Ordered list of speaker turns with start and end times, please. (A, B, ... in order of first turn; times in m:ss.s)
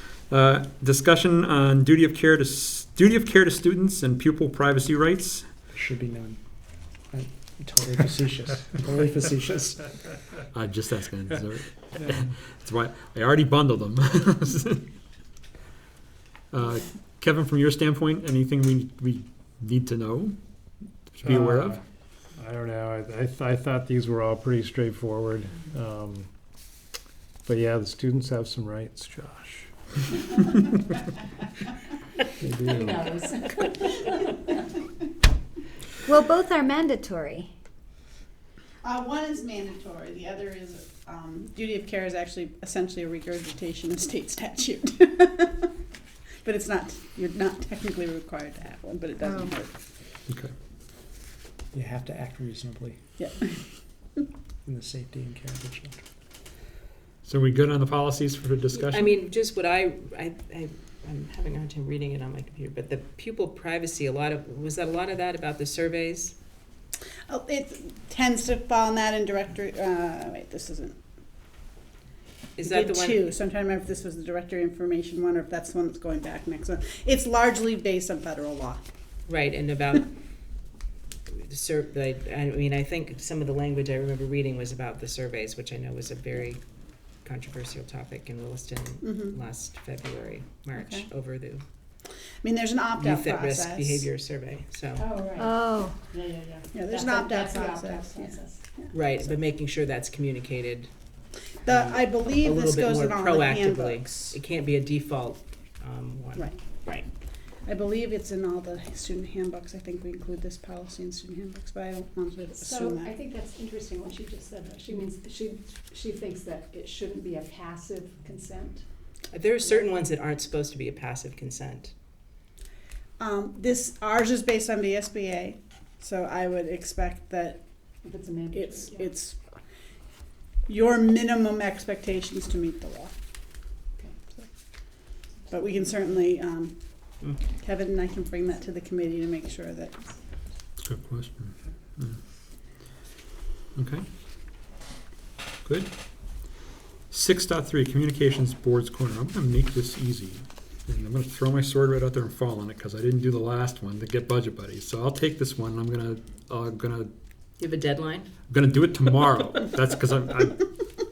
0:00.3-0:05.5 A
0:05.7-0:06.4 B
0:07.0-0:09.8 B
0:10.5-0:14.8 A
0:16.5-0:20.4 A
0:21.1-0:21.8 A
0:21.2-0:21.8 C
0:22.4-0:26.3 C
0:27.4-0:29.7 C
0:32.4-0:32.9 B
0:32.7-0:34.0 D
0:36.1-0:37.5 E
0:38.8-0:45.7 F
0:46.4-0:49.7 F
0:49.2-0:49.5 E
0:51.7-0:53.0 B
0:53.2-0:53.6 F
0:54.6-0:56.0 B
0:57.2-0:59.3 A
0:58.8-1:06.4 G
1:07.3-1:11.0 F
1:12.6-1:13.2 G
1:12.6-1:18.8 F
1:19.3-1:20.1 G
1:21.4-1:26.6 G
1:27.2-1:31.6 G
1:29.0-1:29.4 F
1:30.8-1:31.1 F
1:32.4-1:34.1 F
1:33.0-1:35.1 G
1:35.0-1:38.6 D
1:35.4-1:36.0 E
1:36.7-1:39.3 F
1:38.9-1:40.9 G
1:41.6-1:44.4 F
1:41.7-1:47.1 G
1:47.6-1:53.1 F
1:52.5-1:58.8 D
1:59.3-2:01.9 G
2:03.2-2:07.6 F
2:08.0-2:09.1 D
2:08.5-2:09.4 F
2:10.7-2:13.1 F
2:14.4-2:20.1 F
2:20.8-2:22.2 A
2:23.8-2:24.0 A
2:25.6-2:26.5 A
2:27.1-2:37.1 A
2:37.6-2:38.3 G
2:38.5-2:40.7 A